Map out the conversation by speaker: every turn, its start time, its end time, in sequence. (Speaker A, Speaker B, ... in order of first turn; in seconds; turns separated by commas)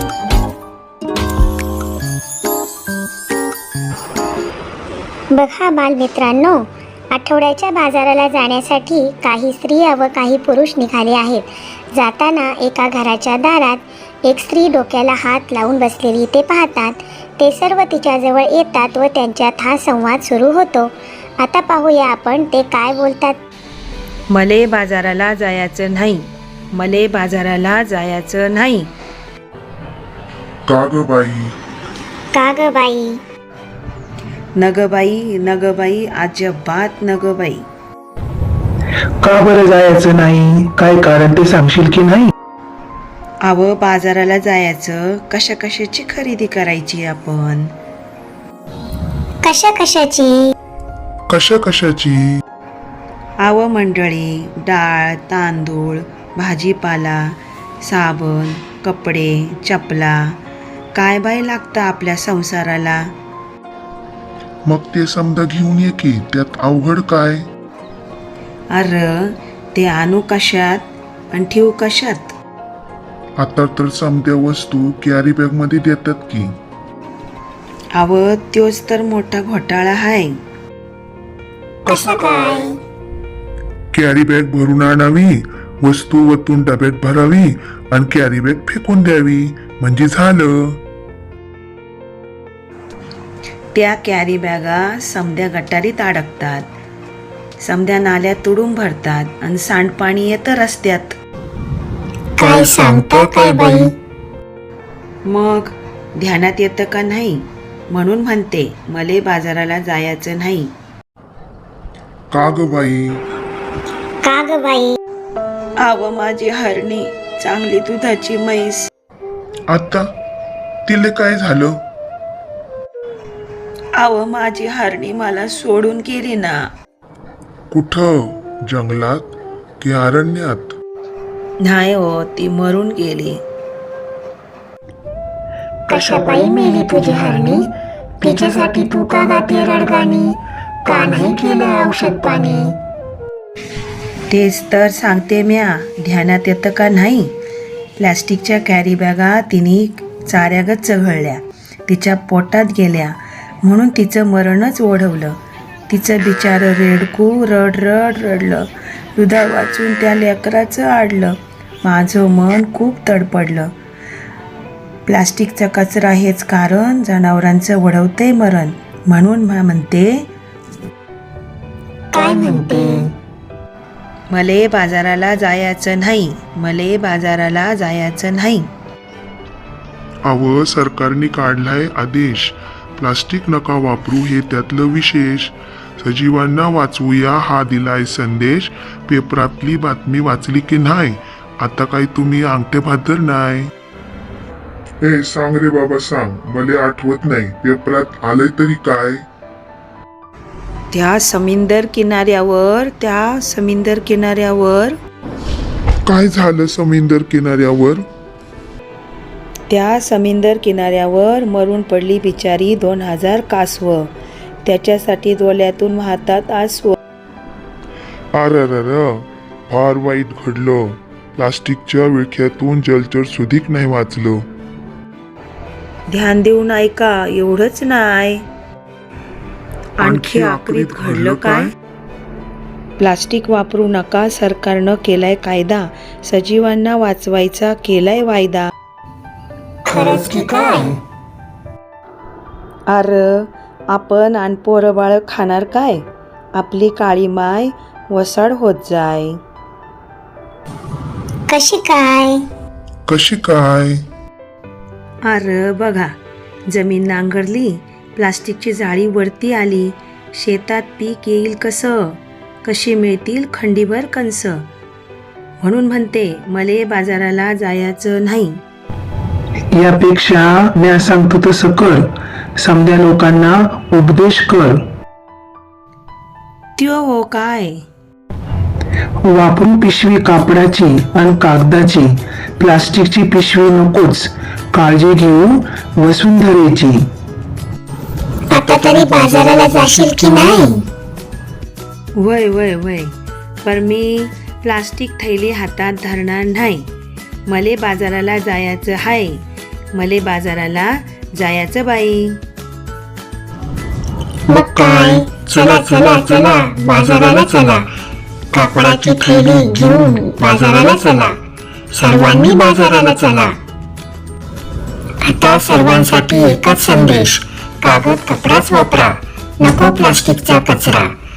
Speaker A: 5.3-23.4, Speaker B: 24.3-28.9, Speaker C: 30.6-31.5, Speaker A: 32.3-33.2, Speaker B: 34.6-37.6, Speaker D: 39.2-42.3, Speaker B: 43.4-47.7, Speaker A: 49.4-50.5, Speaker C: 51.3-52.4, Speaker B: 53.4-60.4, Speaker B: 60.9-63.1, Speaker C: 64.7-67.4, Speaker B: 68.7-72.3, Speaker C: 73.4-76.5, Speaker B: 77.9-80.3, Speaker A: 81.8-82.8, Speaker C: 83.9-90.8, Speaker B: 93.7-96.7, Speaker B: 97.6-101.2, Speaker A: 102.4-103.9, Speaker B: 105.2-110.7, Speaker C: 112.3-113.2, Speaker A: 114.2-115.0, Speaker B: 115.8-118.9, Speaker C: 119.7-120.1, Speaker C: 120.9-121.8, Speaker B: 124.0-126.6, Speaker C: 127.7-129.2, Speaker C: 129.8-130.8, Speaker B: 131.6-133.4, Speaker A: 135.9-137.7, Speaker A: 138.2-142.7, Speaker B: 144.3-147.3, Speaker B: 148.0-155.4, Speaker B: 155.9-163.7, Speaker B: 165.1-170.1, Speaker A: 172.1-173.1, Speaker B: 174.3-178.7, Speaker C: 180.2-193.7, Speaker C: 195.0-199.2, Speaker B: 200.9-205.0, Speaker C: 206.1-208.0, Speaker B: 209.7-214.1, Speaker B: 214.7-216.9, Speaker C: 218.3-224.4, Speaker B: 226.1-228.4, Speaker B: 230.0-231.7, Speaker C: 230.0-231.7, Speaker B: 233.0-238.7, Speaker A: 239.9-240.9, Speaker B: 242.9-246.0, Speaker B: 246.5-249.4, Speaker A: 251.5-252.4, Speaker C: 253.1-254.0, Speaker B: 255.3-256.1, Speaker B: 256.7-264.6, Speaker B: 265.6-268.6, Speaker D: 269.7-274.8, Speaker B: 276.8-277.8, Speaker D: 279.2-287.1, Speaker A: 288.5-290.8, Speaker B: 292.2-293.1, Speaker B: 293.6-296.9, Speaker B: 297.5-299.4, Speaker B: 299.9-302.4, Speaker A: 304.5-307.9, Speaker A: 308.5-311.4, Speaker A: 311.9-313.6, Speaker A: 315.2-321.1